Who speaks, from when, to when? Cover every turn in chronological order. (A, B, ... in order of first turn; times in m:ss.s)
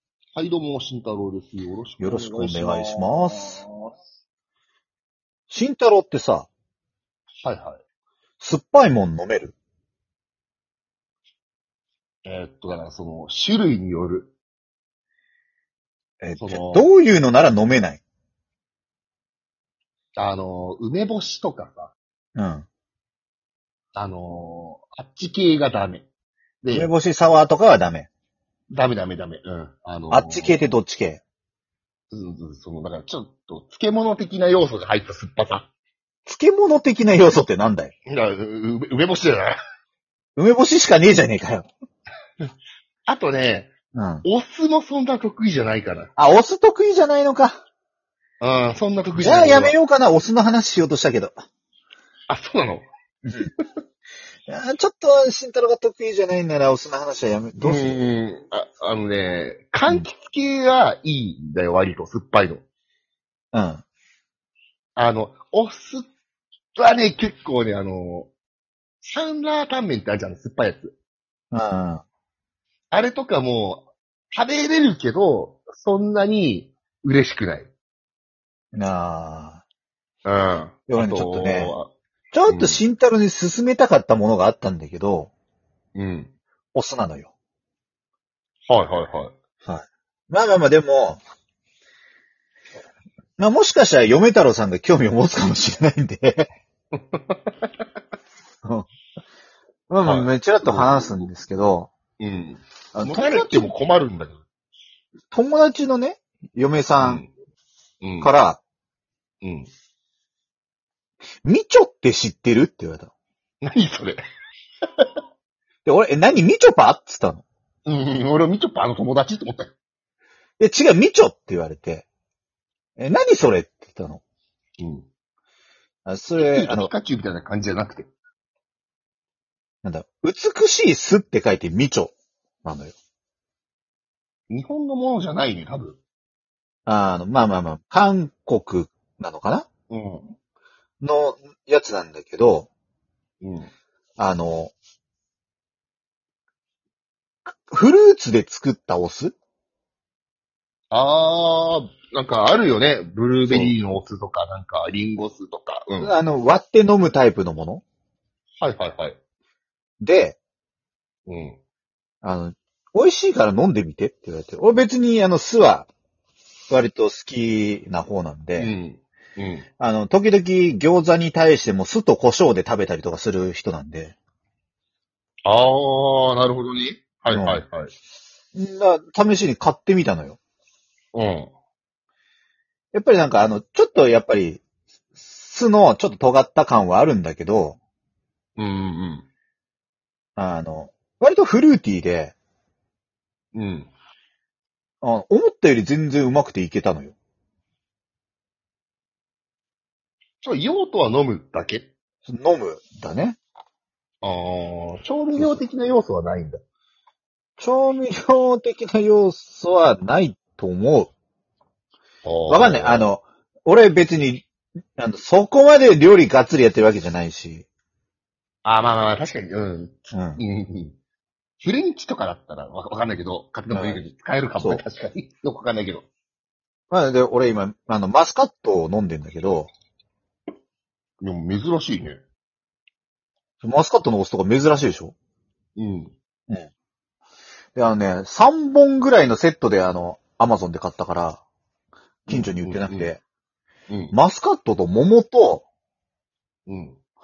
0:00.4-0:03.9 A
0:02.0-0:03.6 B
0:05.5-0:06.5 B
0:07.4-0:07.8 A
0:08.4-0:09.6 B
0:12.2-0:14.3 A
0:16.2-0:18.0 B
0:16.4-0:16.9 A
0:20.2-0:22.0 A
0:22.4-0:22.7 B
0:24.0-0:26.1 A
0:26.6-0:26.9 A
0:26.7-0:28.1 B
0:28.7-0:30.6 A
0:30.1-0:31.2 B
0:32.1-0:35.7 A
0:36.3-0:37.9 B
0:38.1-0:39.6 A
0:40.4-0:41.7 B
0:43.1-0:46.1 A
0:43.9-0:44.2 B
0:46.2-0:47.6 B
0:48.4-0:49.7 A
0:49.2-0:51.3 B
0:52.3-0:52.8 A
0:53.3-0:53.5 B
0:54.5-0:58.0 B
0:57.6-1:02.6 A
1:03.5-1:03.8 B
1:05.0-1:06.1 A
1:06.8-1:08.3 A
1:09.0-1:11.0 A
1:11.5-1:12.0 B
1:12.9-1:17.7 A
1:18.7-1:19.6 B
1:20.2-1:21.9 A
1:20.9-1:21.7 B
1:22.3-1:25.3 B
1:22.5-1:22.8 A
1:26.0-1:26.3 A
1:26.8-1:27.3 B
1:28.7-1:29.4 A
1:29.6-1:31.2 B
1:33.4-1:36.5 B
1:37.0-1:37.5 A
1:39.9-1:41.9 B
1:40.0-1:41.3 A
1:42.2-1:44.4 A
1:42.9-1:43.7 B
1:45.3-1:47.2 B
1:47.0-1:47.3 A
1:48.0-1:48.3 A
1:48.2-1:48.6 B
1:49.4-1:49.7 A
1:51.4-1:53.1 B
1:53.6-1:54.2 A
1:55.8-1:57.4 B
1:57.9-1:59.7 A
2:00.6-2:02.1 B
2:03.0-2:04.2 B
2:04.8-2:05.1 A
2:06.1-2:06.9 B
2:06.4-2:08.1 A
2:09.8-2:13.0 B
2:14.5-2:16.0 A
2:16.9-2:19.7 B
2:19.9-2:20.3 A
2:21.0-2:22.7 B
2:23.4-2:23.7 A
2:24.2-2:24.7 B
2:27.7-2:29.4 B
2:30.9-2:36.1 A
2:33.5-2:33.7 B
2:36.0-2:37.8 B
2:38.6-2:39.2 A
2:40.0-2:40.4 B
2:41.3-2:41.6 A
2:42.2-2:45.9 B
2:46.7-2:48.7 B
2:48.6-2:49.6 A
2:49.8-2:54.2 B
2:55.5-2:57.9 A
2:57.3-2:57.6 B
2:58.5-3:00.4 B
3:01.1-3:01.5 A
3:02.9-3:04.6 B
3:05.2-3:07.8 B
3:08.6-3:09.3 A
3:10.4-3:12.4 B
3:13.6-3:13.9 A
3:15.0-3:17.2 B
3:20.4-3:21.9 A
3:22.3-3:23.4 B
3:24.2-3:26.6 A
3:27.6-3:31.1 B
3:32.2-3:33.1 A
3:32.5-3:37.7 B
3:38.6-3:41.0 A
3:40.1-3:40.4 B
3:41.6-3:46.1 A
3:43.7-3:44.0 B
3:46.9-3:49.7 B
3:51.2-3:52.2 A
3:53.6-3:55.2 B
3:55.8-3:56.1 A
3:57.8-4:01.4 B
4:02.3-4:03.2 B
4:02.3-4:03.1 A
4:03.9-4:04.2 A
4:04.1-4:05.6 B
4:06.7-4:07.0 A